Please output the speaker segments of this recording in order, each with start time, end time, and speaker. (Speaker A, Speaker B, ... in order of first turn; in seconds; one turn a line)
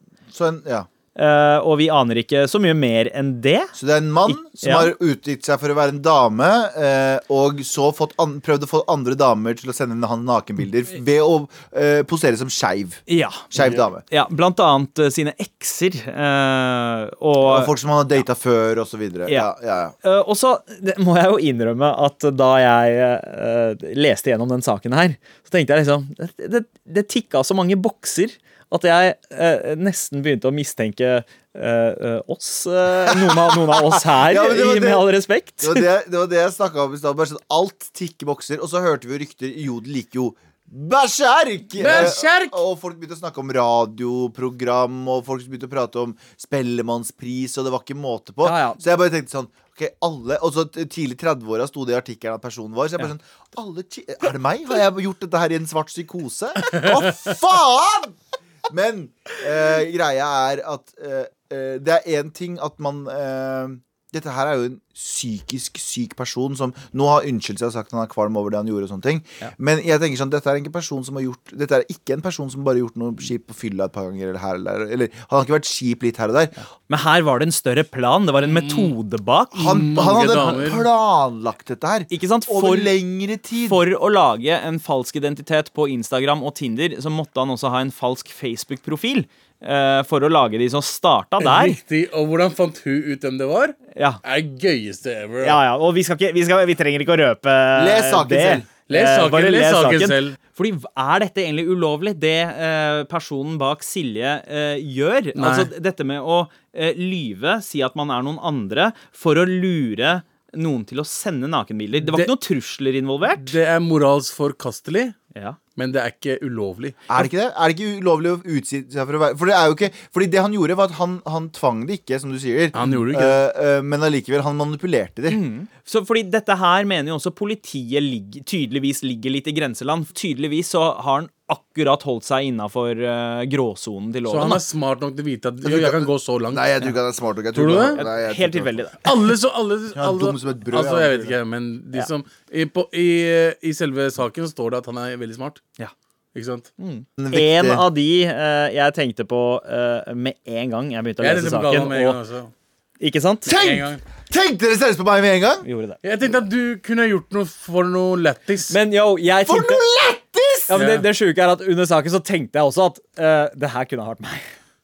Speaker A: 0.3-0.9
Speaker B: 1.1-3.7
Speaker A: 3.8-14.0
Speaker B: 4.2-4.9
Speaker B: 13.1-17.7
Speaker A: 17.4-19.9
Speaker B: 20.0-35.9
Speaker A: 33.1-35.1
Speaker A: 35.6-58.2
Speaker C: 41.8-42.6
Speaker B: 48.4-48.8
Speaker A: 58.7-76.5
Speaker B: 76.9-80.0
Speaker C: 78.5-78.9
Speaker A: 79.5-83.8
Speaker C: 79.6-80.8
Speaker B: 82.1-82.9
Speaker B: 83.6-91.8
Speaker C: 91.4-95.6
Speaker B: 93.9-94.2
Speaker B: 95.4-113.5
Speaker A: 97.8-98.7
Speaker C: 98.9-100.4
Speaker C: 105.3-105.7
Speaker C: 112.0-112.3
Speaker C: 113.3-115.2
Speaker C: 115.8-117.1
Speaker A: 117.1-125.4
Speaker C: 122.7-123.4
Speaker B: 125.3-134.6
Speaker C: 134.3-136.8
Speaker A: 135.6-139.1
Speaker C: 137.5-138.0
Speaker B: 137.9-139.0
Speaker C: 139.0-145.6
Speaker A: 139.9-141.3
Speaker C: 146.3-146.7
Speaker B: 146.8-152.2
Speaker A: 147.2-147.8
Speaker C: 151.2-152.5
Speaker B: 153.0-153.5
Speaker C: 153.4-154.0
Speaker A: 153.4-155.7
Speaker B: 155.6-156.0
Speaker C: 156.0-158.7
Speaker B: 158.7-159.8
Speaker A: 159.4-160.8
Speaker B: 160.7-164.4
Speaker C: 160.7-161.1